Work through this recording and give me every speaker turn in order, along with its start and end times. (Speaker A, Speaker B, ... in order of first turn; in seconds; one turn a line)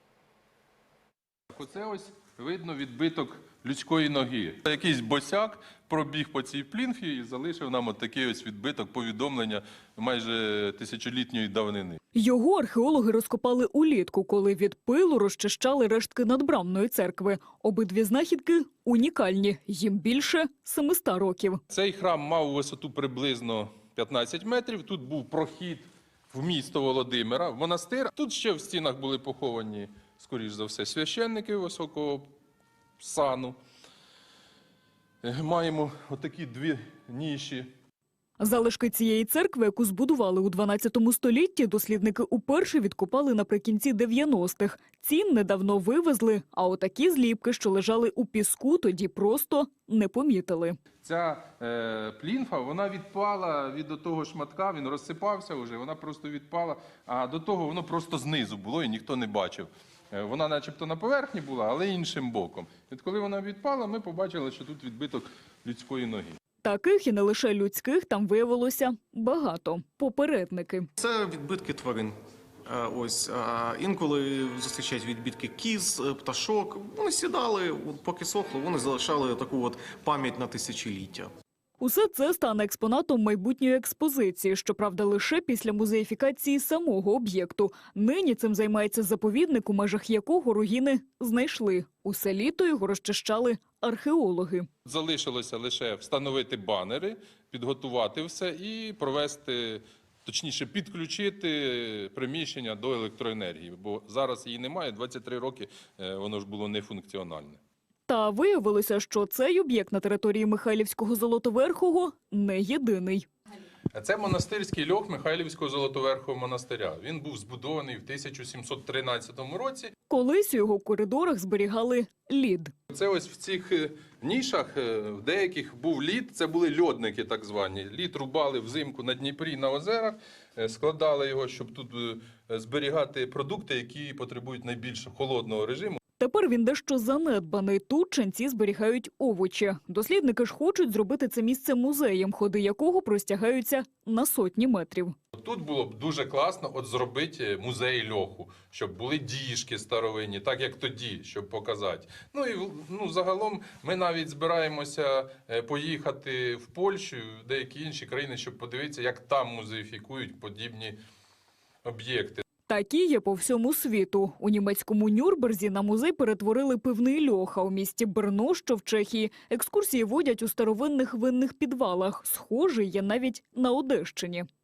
Speaker A: 1.5-12.0
Speaker B: 12.1-21.6
Speaker A: 21.7-32.3
Speaker A: 33.0-33.6
Speaker A: 35.2-37.7
Speaker B: 38.4-50.8
Speaker A: 51.0-66.4
Speaker B: 66.6-70.9
Speaker C: 71.0-72.1
Speaker C: 72.7-81.3
Speaker B: 81.8-94.7
Speaker A: 94.8-107.6
Speaker B: 108.1-113.3
Speaker A: 113.9-119.9
Speaker B: 120.1-122.7
Speaker A: 122.9-136.0
Speaker B: 136.2-145.1
Speaker A: 145.3-161.0
Speaker A: 161.8-162.4
Speaker B: 162.7-174.5